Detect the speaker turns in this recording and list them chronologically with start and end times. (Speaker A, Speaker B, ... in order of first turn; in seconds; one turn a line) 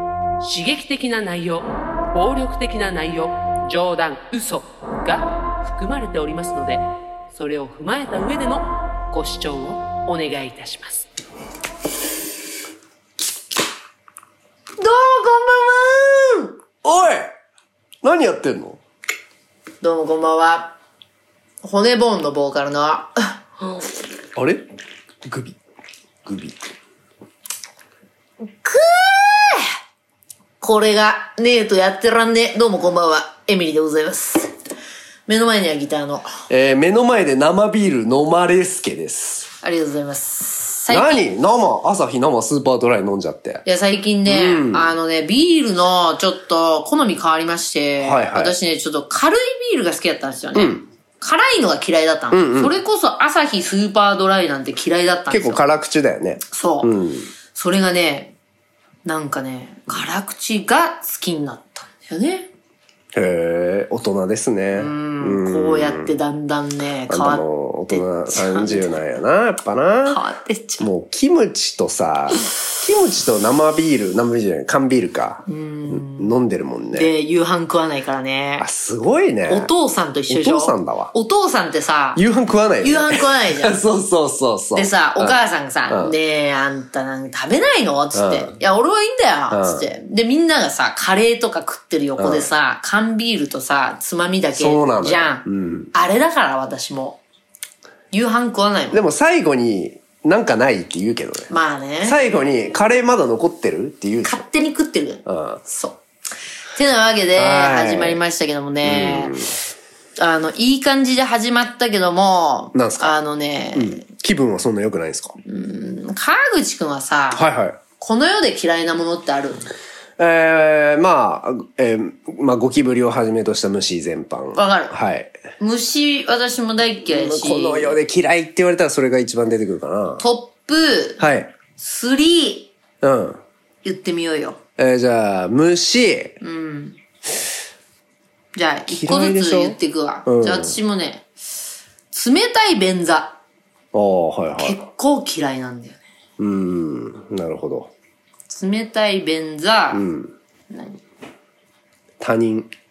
Speaker A: 0.4-11.1
Speaker B: 14.8-16.5
Speaker C: 16.8-17.3
Speaker C: 18.0-18.8
Speaker B: 19.8-20.8
Speaker B: 21.6-23.4
Speaker C: 24.4-24.6
Speaker C: 25.2-25.6
Speaker C: 26.3-26.6
Speaker B: 28.4-29.7
Speaker B: 30.6-34.5
Speaker B: 35.3-36.3
Speaker C: 36.5-39.5
Speaker B: 39.6-41.3
Speaker C: 40.9-43.6
Speaker B: 43.7-55.7
Speaker C: 44.3-44.9
Speaker C: 48.0-48.6
Speaker C: 50.5-50.9
Speaker C: 52.3-52.7
Speaker C: 55.3-57.3
Speaker B: 56.5-56.9
Speaker B: 57.5-58.3
Speaker B: 59.0-62.5
Speaker C: 63.1-66.1
Speaker B: 64.8-68.9
Speaker C: 67.1-70.2
Speaker B: 70.1-70.9
Speaker C: 70.8-77.1
Speaker B: 75.5-76.3
Speaker B: 77.0-78.7
Speaker C: 78.6-79.7
Speaker B: 79.5-82.2
Speaker C: 80.3-81.1
Speaker C: 82.2-85.3
Speaker B: 82.8-83.8
Speaker B: 84.8-97.2
Speaker C: 85.9-86.1
Speaker C: 88.2-88.5
Speaker C: 89.5-89.9
Speaker C: 92.2-92.5
Speaker C: 94.6-95.9
Speaker B: 98.1-99.0
Speaker C: 98.9-101.5
Speaker B: 101.5-102.2
Speaker C: 102.0-104.4
Speaker B: 104.2-106.0
Speaker C: 105.3-105.6
Speaker B: 106.8-109.4
Speaker C: 107.4-108.2
Speaker C: 108.8-109.5
Speaker B: 110.2-114.0
Speaker C: 112.7-113.2
Speaker C: 113.7-115.4
Speaker B: 115.4-117.5
Speaker C: 117.3-117.8
Speaker B: 118.0-119.7
Speaker C: 120.2-125.3
Speaker B: 124.5-124.9
Speaker B: 125.6-128.0
Speaker C: 127.1-130.2
Speaker B: 130.2-131.2
Speaker C: 131.2-131.5
Speaker B: 131.8-132.7
Speaker C: 133.0-133.4
Speaker B: 133.8-134.6
Speaker C: 134.8-136.4
Speaker B: 136.4-137.0
Speaker B: 138.6-141.3
Speaker C: 138.9-140.8
Speaker B: 142.1-143.4
Speaker C: 143.9-144.8
Speaker B: 144.6-146.0
Speaker C: 146.4-147.9
Speaker B: 148.5-150.1
Speaker C: 149.9-150.3
Speaker B: 150.7-151.0
Speaker C: 152.2-152.7